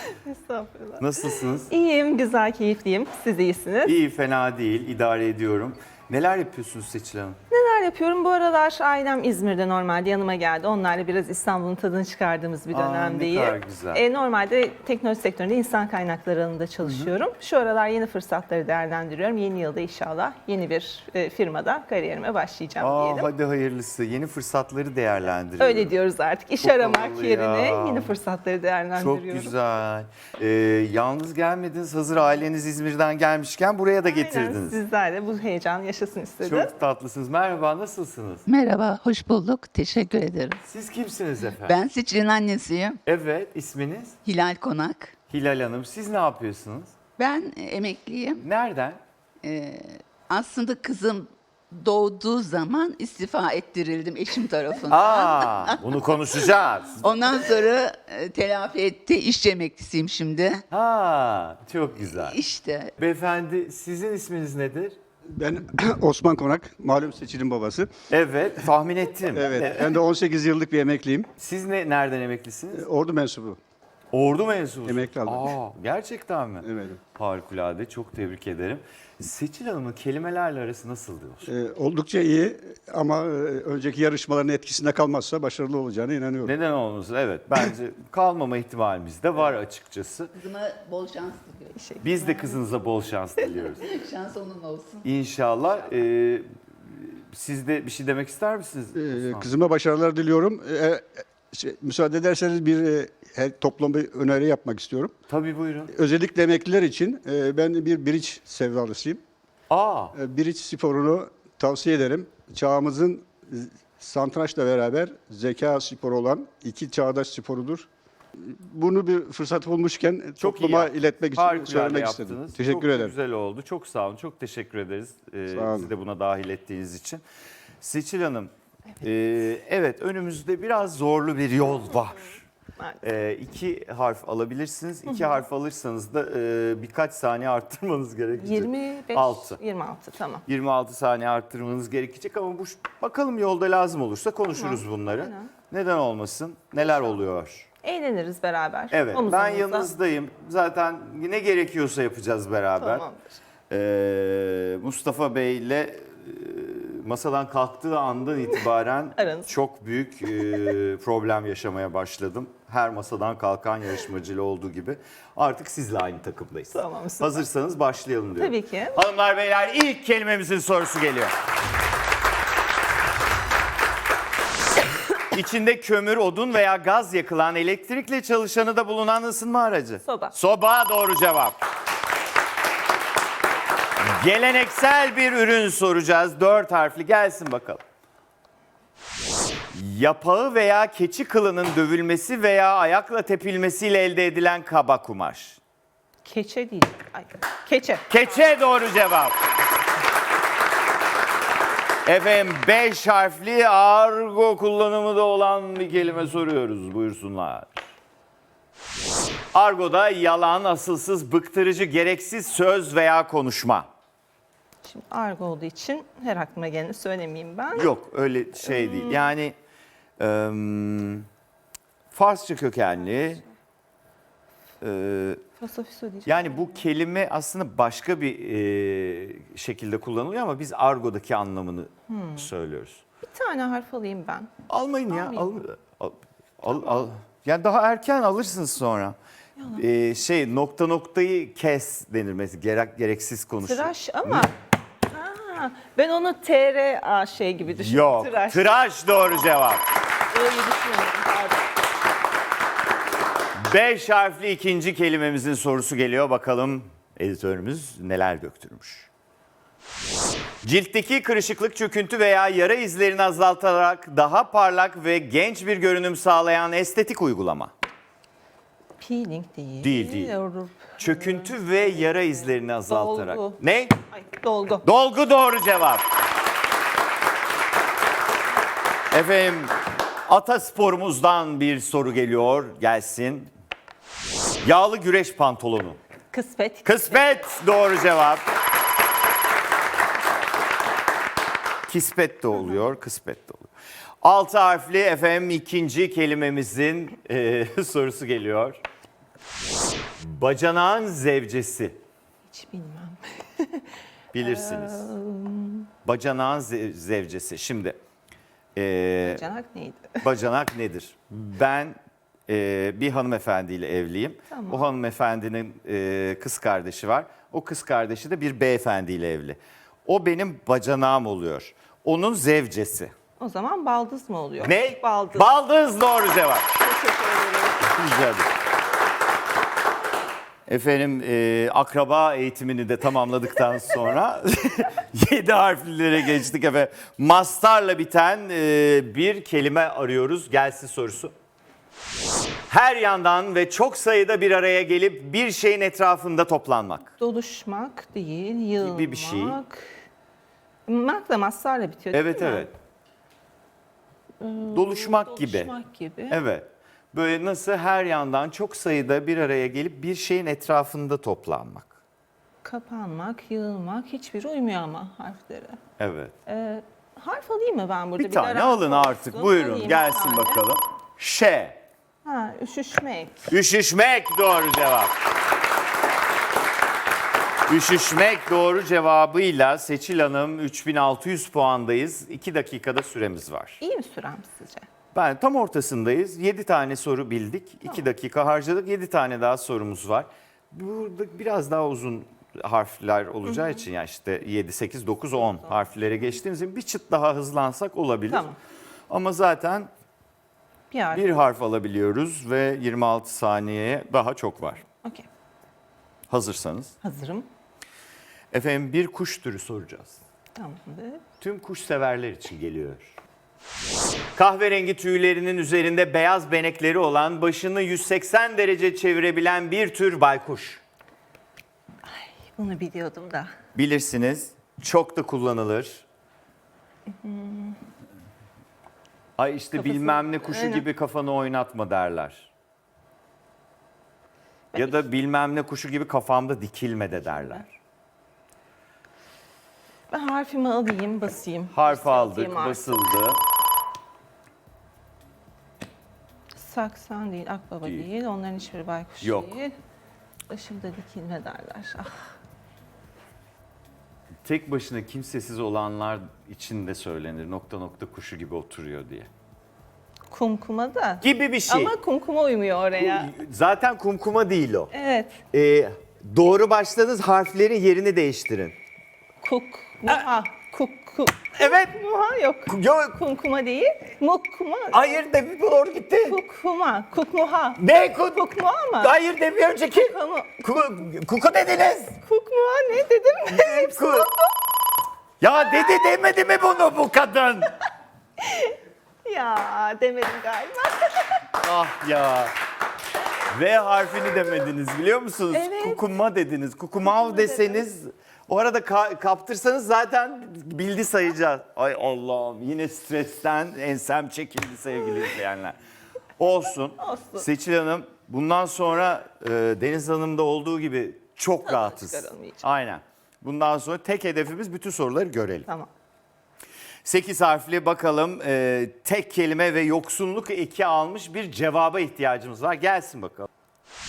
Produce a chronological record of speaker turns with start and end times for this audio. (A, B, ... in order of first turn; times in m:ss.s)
0:00.1-0:04.0 A
0:01.0-0:01.7 B
0:03.8-0:07.4 B
0:07.5-0:23.3 A
0:12.7-0:14.0 B
0:16.8-0:17.1 B
0:22.8-0:25.9 B
0:25.6-0:29.5 A
0:26.6-0:28.1 B
0:29.0-0:34.8 B
0:34.0-0:36.7 A
0:36.4-0:38.4 B
0:38.5-0:40.6 C
0:40.6-0:41.8 B
0:41.6-0:43.0 C
0:43.0-0:44.2 B
0:44.2-0:45.1 C
0:45.3-0:46.9 B
0:47.2-0:48.4 C
0:48.4-0:49.0 B
0:49.4-0:55.8 C
0:54.9-0:57.1 B
0:57.0-1:00.6 C
1:00.7-1:02.4 B
1:02.1-1:02.9 C
1:03.0-1:05.0 B
1:05.3-1:07.9 D
1:08.1-1:10.0 B
1:09.3-1:11.3 D
1:11.4-1:12.8 B
1:12.7-1:13.6 D
1:14.1-1:21.5 B
1:14.8-1:15.5 D
1:16.6-1:17.0 D
1:21.4-1:26.5 D
1:26.4-1:30.3 B
1:30.4-1:31.7 C
1:31.7-1:32.6 A
1:32.0-1:33.8 B
1:33.7-1:35.0 C
1:35.0-1:39.5 B
1:38.9-1:45.1 D
1:45.3-1:45.9 B
1:45.9-1:49.2 D
1:49.7-1:50.2 B
1:50.1-2:03.1 D
2:00.4-2:07.2 B
2:05.5-2:05.9 D
2:07.8-2:12.4 B
2:13.0-2:19.6 B
2:15.1-2:15.4 A
2:18.4-2:20.4 A
2:20.4-2:27.7 B
2:24.5-2:25.5 A
2:26.8-2:27.2 A
2:27.8-2:29.9 A
2:28.9-2:33.0 B
2:32.8-2:33.4 A
2:33.7-2:51.3 B
2:39.2-2:39.5 A
2:40.4-2:40.7 A
2:46.7-2:47.4 A
2:48.4-2:49.0 A
2:55.3-3:01.6 B
3:00.0-3:00.3 A
3:04.0-3:07.8 B
3:09.7-3:15.6 B
3:16.2-3:18.1 A
3:18.1-3:19.3 B
3:22.0-3:27.7 B
3:29.5-3:33.9 B
3:34.8-3:37.9 A
3:37.7-3:39.5 B
3:38.6-3:39.3 A
3:40.2-3:41.2 B
3:42.1-3:43.4 B
3:44.8-3:45.4 B
3:45.6-3:46.8 A
3:46.2-3:53.0 B
3:52.1-3:52.5 A
3:53.3-3:54.5 A
3:54.7-3:59.2 B
3:55.1-3:55.5 A
3:59.6-3:59.8 A
3:59.7-4:04.5 B
4:03.6-4:04.5 A
4:05.1-4:09.5 A
4:07.7-4:09.8 B
4:10.3-4:11.6 A
4:13.6-4:19.1 B
4:20.6-4:27.7 B
4:29.0-4:33.6 A
4:29.8-4:30.3 B
4:31.0-4:33.9 B
4:34.1-4:34.8 A
4:34.8-4:36.0 B
4:39.1-4:39.7 B
4:40.2-4:43.5 B
4:44.6-4:46.0 B
4:46.3-4:47.4 A
4:46.8-4:48.4 B
4:51.9-4:53.7 B
4:54.2-4:58.8 B
5:00.2-5:02.0 B
5:02.5-5:05.9 A
5:04.3-5:05.1 B
5:06.0-5:08.0 B
5:08.8-5:09.4 B
5:09.2-5:10.2 A
5:10.2-5:12.0 B
5:12.5-5:23.1 B
5:14.5-5:14.9 A
5:23.4-5:25.5 A
5:24.6-5:26.7 B
5:26.8-5:27.8 A
5:27.8-5:28.5 B
5:30.7-5:41.3 B
5:42.7-5:47.1 B
5:47.2-5:50.0 A
5:48.8-5:49.6 B
5:50.9-5:52.7 A
5:52.1-5:52.7 B
5:54.4-5:56.4 A
5:54.7-5:55.7 B
5:56.3-6:01.9 B
6:02.6-6:05.8 A
6:06.0-6:06.3 B
6:06.4-6:10.6 A
6:08.2-6:11.8 B
6:12.2-6:13.5 A
6:13.5-6:15.1 B
6:17.7-6:23.8 B
6:23.8-6:24.8 A
6:25.1-6:38.4 B
6:33.4-6:33.8 A
6:38.3-6:38.6 A
6:39.1-6:39.9 B
6:40.9-6:41.4 A
6:41.1-6:44.8 B
6:46.3-6:46.9 B
6:47.0-6:47.5 A
6:48.5-6:50.2 B
6:50.6-6:51.2 A
6:51.4-6:53.1 B
6:54.4-7:00.8 B
7:02.0-7:03.5 A
7:03.7-7:06.0 B
7:07.2-7:07.8 A
7:09.4-7:12.5 B
7:09.7-7:10.9 A
7:14.7-7:15.0 A
7:14.7-7:17.7 B
7:17.2-7:17.6 A
7:20.1-7:23.1 A
7:21.7-7:23.4 B
7:26.6-7:29.7 A
7:29.2-7:29.6 B
7:30.5-7:32.3 A
7:34.4-7:39.3 B
7:40.3-7:43.3 A
7:41.2-7:41.9 B
7:43.0-7:44.9 B
7:44.9-7:45.4 A
7:45.5-7:48.8 B
7:49.4-7:55.2 A
7:51.6-7:51.9 B
7:52.7-7:53.2 B
7:54.9-7:56.4 B
7:56.2-7:59.1 A
7:57.8-7:58.4 B
7:59.0-8:02.2 B
7:59.8-8:00.6 A
8:02.2-8:04.5 A
8:03.5-8:04.3 B
8:05.4-8:07.7 B
8:08.4-8:11.3 A
8:11.5-8:12.5 B
8:13.5-8:25.8 B
8:15.5-8:16.0 A
8:17.0-8:17.9 A
8:26.4-8:35.7 B
8:27.0-8:27.5 A
8:31.6-8:32.6 A
8:37.0-8:43.5 B